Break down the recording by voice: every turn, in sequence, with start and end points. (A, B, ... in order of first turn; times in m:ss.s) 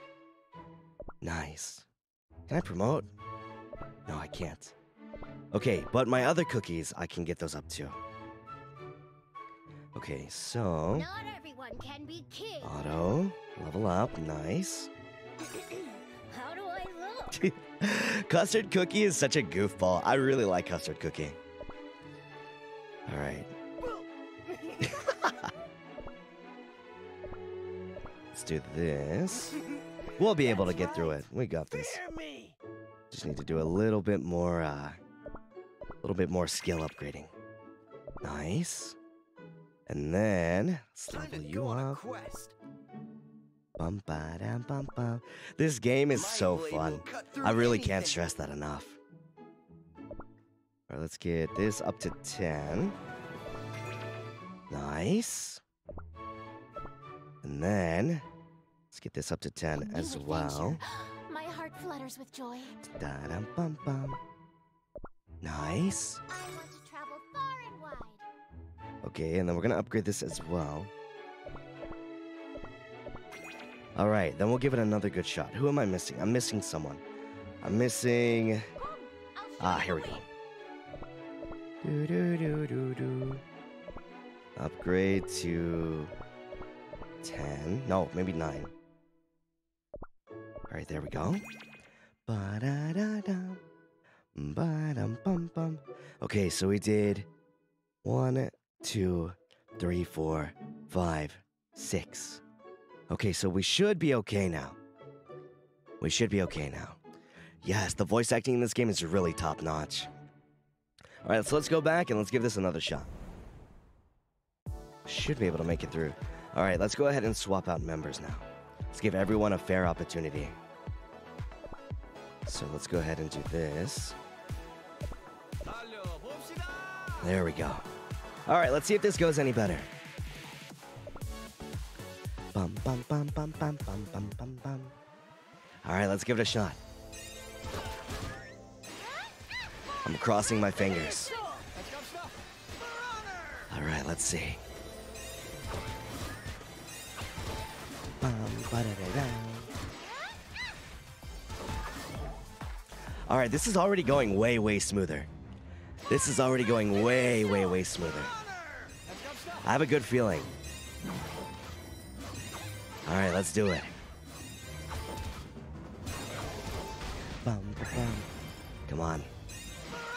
0:01.2-0:01.9 A
0:02.5-0:03.1 A
0:04.1-0:04.7 A
0:05.5-0:08.0 A
0:09.9-0:11.1 A
0:10.9-0:12.7 B
0:12.6-0:14.9 A
0:15.6-0:17.4 B
0:17.4-0:21.4 A
0:23.1-0:23.5 A
0:24.8-0:25.5 A
0:28.3-0:29.6 A
0:30.2-0:32.0 A
0:33.1-0:35.0 A
0:36.0-0:37.3 A
0:38.2-0:39.0 A
0:39.9-0:42.0 A
0:41.4-0:42.3 C
0:43.8-0:49.0 A
0:46.5-0:47.1 C
0:50.9-0:53.0 A
0:54.7-0:55.6 A
0:57.4-0:58.2 A
0:58.9-1:00.8 A
0:59.7-1:02.8 B
1:02.8-1:04.2 A
1:05.4-1:06.2 A
1:06.3-1:08.2 B
1:09.0-1:10.9 A
1:14.0-1:17.0 A
1:17.6-1:18.7 A
1:18.8-1:20.3 B
1:19.6-1:20.3 A
1:21.8-1:23.4 A
1:24.6-1:26.1 A
1:27.2-1:28.7 A
1:30.7-1:31.4 A
1:32.3-1:33.6 A
1:34.4-1:37.3 A
1:38.0-1:42.4 A
1:43.1-1:44.8 A
1:46.0-1:47.0 A
1:47.6-1:50.1 A
1:51.2-1:53.1 A
1:55.1-2:00.6 A
2:02.5-2:04.2 A
2:05.6-2:07.4 C
2:07.2-2:07.9 A
2:08.5-2:09.9 A
2:12.5-2:14.9 A
2:15.8-2:16.8 A
2:20.0-2:21.4 A
2:21.7-2:22.3 C
2:23.7-2:24.6 A
2:28.2-2:29.7 A
2:33.3-2:35.3 A
2:36.1-2:38.4 A
2:39.1-2:39.7 C
2:39.6-2:40.5 A
2:43.0-2:43.9 A
2:47.4-2:48.3 A
2:48.9-2:49.3 A